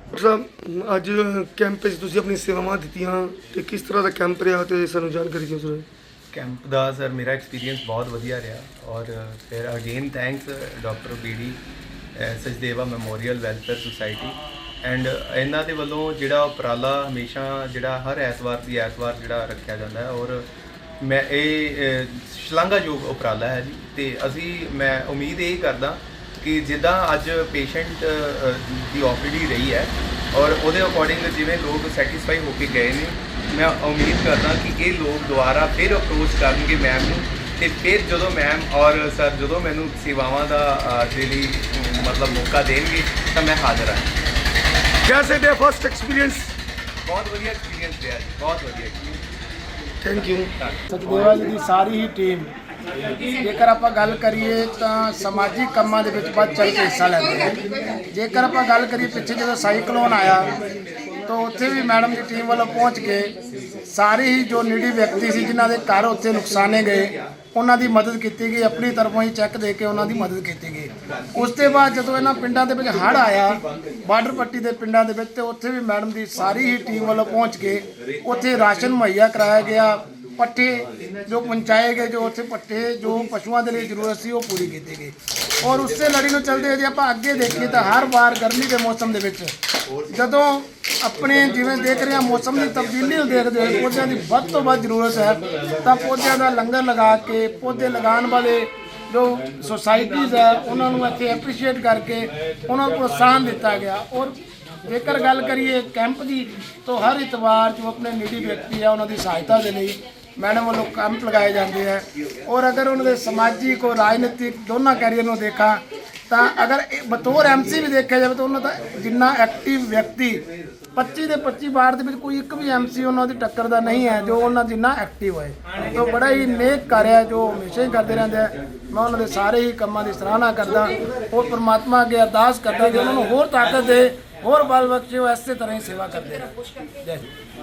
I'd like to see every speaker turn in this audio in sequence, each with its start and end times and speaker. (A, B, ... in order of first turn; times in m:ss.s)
0:00.1-0:05.9 A
0:06.3-0:11.6 B
0:12.2-0:20.5 B
0:21.0-0:44.1 B
0:45.0-0:46.5 A
0:47.0-0:49.0 B
0:50.0-0:50.5 A
0:50.9-0:52.5 C
0:53.4-0:57.5 C
0:58.1-1:00.5 C
1:01.3-1:03.3 C
1:03.9-1:29.5 C
1:30.1-2:00.4 C
2:00.9-2:16.5 C